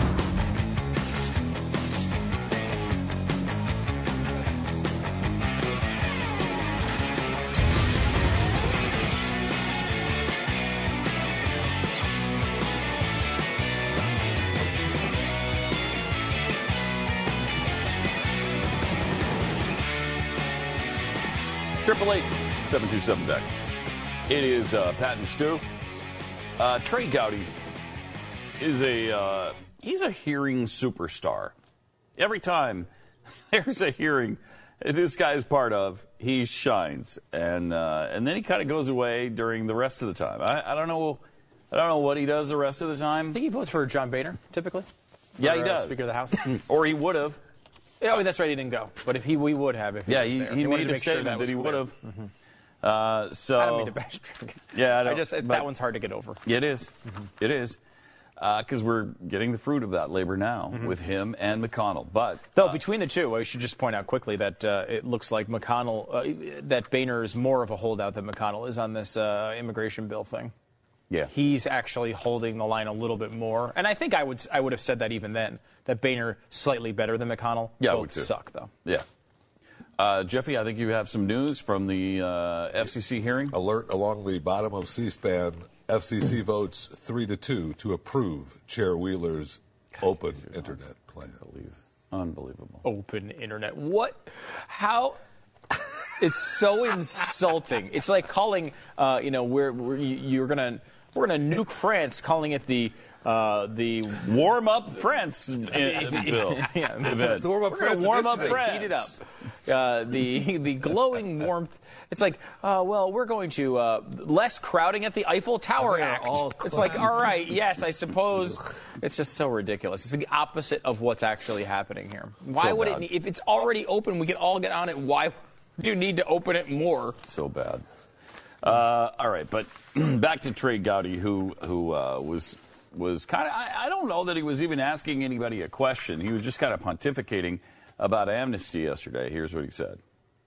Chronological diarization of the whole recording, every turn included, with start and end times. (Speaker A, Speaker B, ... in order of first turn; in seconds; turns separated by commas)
Speaker A: 21.8-23.5, Speaker A: 24.3-25.6, Speaker A: 26.6-27.5, Speaker A: 28.6-31.6, Speaker A: 32.2-32.9, Speaker A: 33.5-43.4, Speaker B: 43.3-46.5, Speaker A: 45.4-47.4, Speaker B: 48.0-52.3, Speaker A: 50.1-52.0, Speaker A: 52.8-53.9, Speaker B: 53.6-56.4, Speaker A: 54.7-55.7, Speaker A: 56.5-57.8, Speaker A: 58.4-62.8, Speaker B: 62.5-70.5, Speaker B: 71.3-78.7, Speaker A: 77.8-78.3, Speaker A: 80.0-83.5, Speaker C: 83.5-91.5, Speaker A: 91.5-92.8, Speaker B: 92.8-95.2, Speaker B: 96.2-104.3, Speaker A: 104.2-109.2, Speaker B: 105.8-107.4, Speaker C: 107.1-108.8, Speaker B: 108.3-127.2, Speaker C: 115.8-117.1, Speaker A: 122.6-123.1, Speaker A: 127.2-127.8, Speaker A: 128.6-140.0